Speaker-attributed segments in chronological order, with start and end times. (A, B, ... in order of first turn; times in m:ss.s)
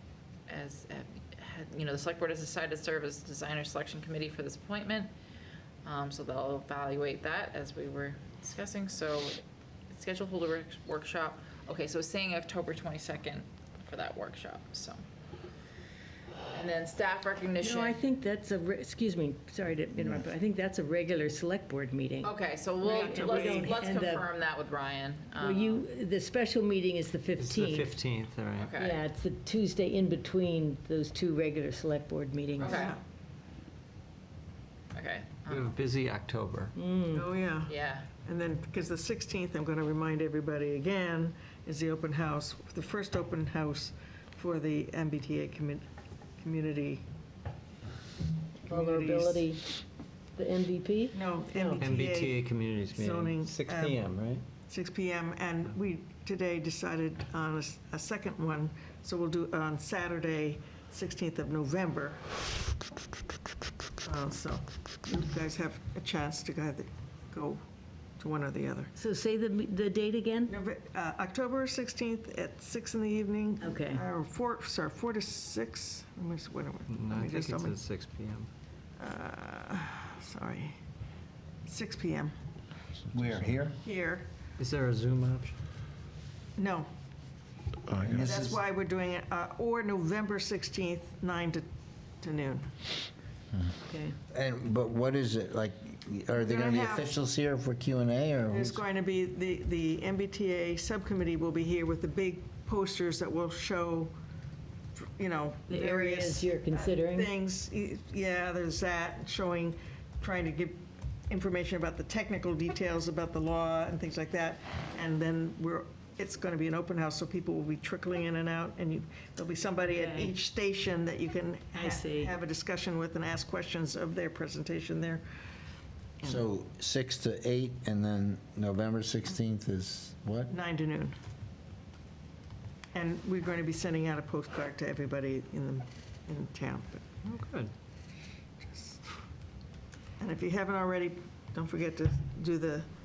0:00.5-0:05.1 A
0:05.8-0:15.0 A
0:16.5-0:18.0 A
0:17.6-0:24.2 B
0:22.2-0:25.9 A
0:22.8-0:23.7 C
0:25.4-0:27.9 B
0:27.4-0:28.7 D
0:28.6-0:29.0 A
0:28.8-0:32.8 B
0:32.6-0:33.0 A
0:32.6-0:33.0 C
0:34.9-0:35.7 A
0:35.5-0:36.8 D
0:36.8-0:37.3 B
0:37.1-0:45.8 C
0:37.7-0:38.1 A
0:46.4-0:47.0 C
0:48.6-0:49.7 B
0:48.6-0:49.5 C
0:50.4-0:51.9 B
0:51.1-0:54.0 C
0:51.8-0:54.4 D
0:54.7-1:02.2 C
1:04.0-1:07.6 C
1:08.2-1:08.9 C
1:08.9-1:10.5 B
1:10.5-1:17.8 C
1:13.6-1:14.0 B
1:16.9-1:18.5 D
1:19.0-1:20.8 C
1:21.6-1:22.3 C
1:23.1-1:23.8 E
1:23.8-1:24.3 C
1:24.6-1:25.6 D
1:26.6-1:26.9 C
1:27.9-1:28.6 E
1:28.1-1:31.6 C
1:32.2-1:32.7 C
1:33.9-1:34.1 B
1:34.3-1:38.8 E
1:36.4-1:37.1 C
1:38.5-1:44.1 C
1:44.9-2:05.2 C
1:45.7-1:47.3 B
1:59.9-2:00.3 B
2:01.7-2:02.4 B
2:06.2-2:10.5 E
2:10.5-2:11.1 C
2:12.9-2:17.1 C
2:17.2-2:17.7 D
2:18.6-2:19.1 C
2:20.2-2:22.9 C